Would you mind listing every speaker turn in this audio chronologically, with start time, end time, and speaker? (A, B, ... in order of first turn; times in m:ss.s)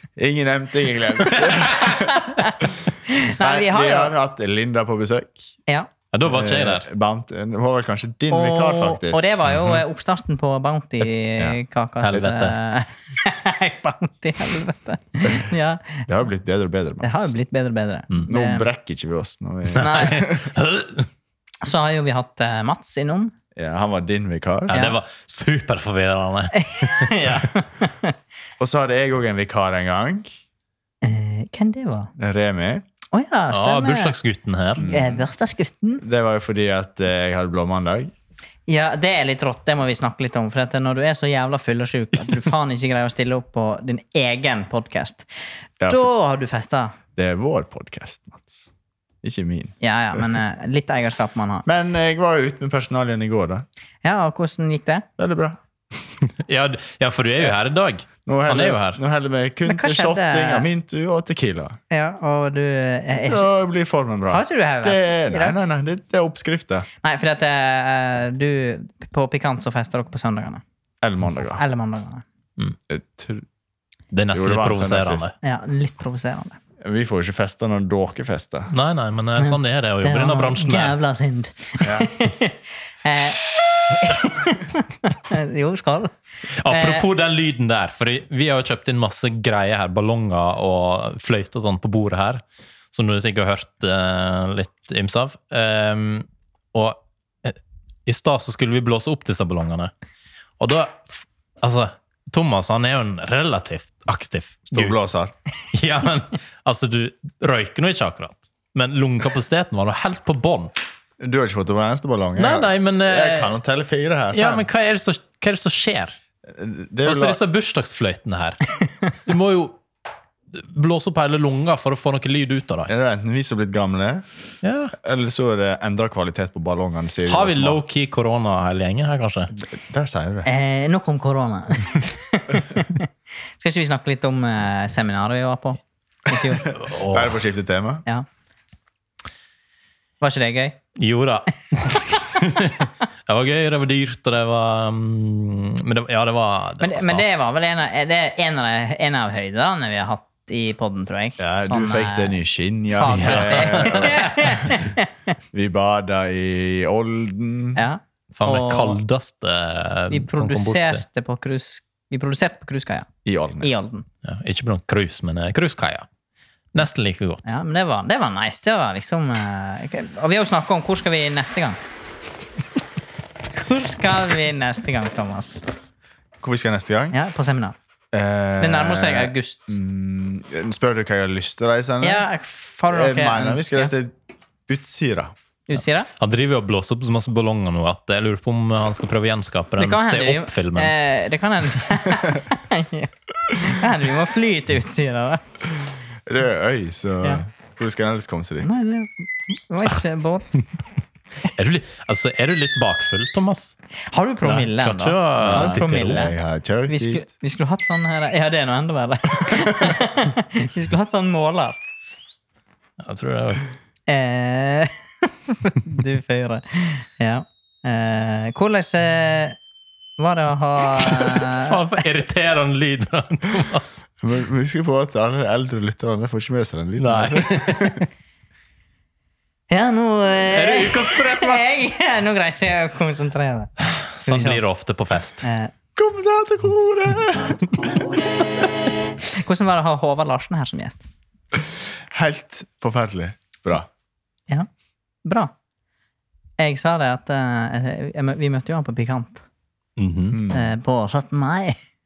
0:00.2-0:05.5 A
0:01.9-0:04.1 B
0:06.1-0:06.9 C
0:06.2-0:09.3 A
0:08.3-0:16.1 B
0:09.5-0:09.8 C
0:12.0-0:12.6 C
0:16.1-0:17.3 A
0:17.0-0:18.6 B
0:18.3-0:20.5 A
0:19.8-0:21.1 C
0:19.8-0:20.3 B
0:21.6-0:23.3 B
0:23.6-0:24.8 A
0:24.7-0:25.0 B
0:24.7-0:27.4 C
0:26.5-0:28.1 B
0:28.6-0:30.3 A
0:31.0-0:32.1 B
0:32.2-0:32.8 A
0:33.1-0:34.2 B
0:33.5-0:35.0 C
0:34.8-0:35.3 A
0:34.8-0:36.0 B
0:36.0-0:38.1 A
0:38.7-0:45.2 B
0:45.8-0:46.1 A
0:45.9-0:47.0 B
0:47.2-0:48.7 A
0:49.2-0:50.2 A
0:49.8-0:51.7 B
0:51.7-0:53.6 A
0:54.0-0:55.1 B
0:55.2-0:55.6 A
0:56.4-0:59.0 C
0:58.2-1:01.8 A
0:59.7-1:00.7 B
1:01.9-1:03.5 B
1:03.3-1:06.9 A
1:04.3-1:05.6 B
1:07.0-1:10.6 B
1:11.0-1:11.6 A
1:11.5-1:12.2 B
1:12.9-1:13.4 A
1:14.1-1:15.4 C
1:14.3-1:15.3 A
1:15.4-1:16.6 B
1:16.8-1:18.7 A
1:18.7-1:21.0 C
1:19.4-1:26.1 B
1:21.8-1:22.1 A
1:26.6-1:32.4 C
1:26.7-1:27.1 B
1:32.9-1:39.9 C
1:40.6-1:45.0 C
1:44.7-1:45.3 A
1:45.7-1:50.7 C
1:51.2-1:54.7 A
1:52.4-1:53.6 C
1:54.3-1:56.2 C
1:56.5-1:57.4 A
1:57.0-1:58.6 C
1:59.2-1:59.8 C
2:00.5-2:02.9 C
2:02.9-2:04.2 A
2:04.6-2:04.9 C
2:05.0-2:07.8 A
2:07.3-2:09.5 C
2:09.6-2:10.5 A
2:10.4-2:16.7 B
2:16.7-2:17.4 C
2:17.1-2:18.0 A
2:20.2-2:20.8 B
2:21.0-2:27.4 C
2:26.8-2:32.4 B
2:31.4-2:34.5 A
2:32.9-2:35.1 B
2:33.0-2:34.5 C
2:35.5-2:37.8 A
2:37.8-2:39.0 B
2:38.4-2:41.0 C
2:40.1-2:43.1 B
2:43.2-2:43.7 A
2:43.6-2:44.1 B
2:44.2-2:46.1 C
2:46.7-2:47.6 C
2:47.4-2:51.8 B
2:53.5-2:55.7 B
2:56.4-2:57.2 A
2:57.1-2:57.8 B
2:58.1-3:02.3 A
2:58.6-2:59.8 B
3:02.0-3:03.9 B
3:02.9-3:04.2 A
3:04.7-3:05.3 A
3:05.7-3:06.1 B
3:06.2-3:10.9 C
3:09.8-3:15.4 B
3:16.3-3:18.7 A
3:18.6-3:20.6 B
3:21.4-3:23.8 C
3:24.1-3:26.4 B
3:24.4-3:26.3 C
3:25.4-3:27.2 A
3:26.9-3:31.8 B
3:33.0-3:33.7 C
3:34.1-3:39.6 B
3:40.2-3:42.0 B
3:41.0-3:44.0 C
3:44.2-3:48.0 A
3:47.0-3:48.0 C
3:49.7-3:53.7 B
3:50.5-3:51.8 C
3:53.8-3:55.4 C
3:54.3-3:54.6 B
3:55.4-3:55.7 B
3:56.0-3:58.0 A
3:59.2-4:01.1 B
4:01.5-4:03.9 A
4:05.2-4:05.5 B
4:06.6-4:09.4 B
4:10.0-4:10.4 C
4:10.3-4:10.7 A
4:10.5-4:11.8 B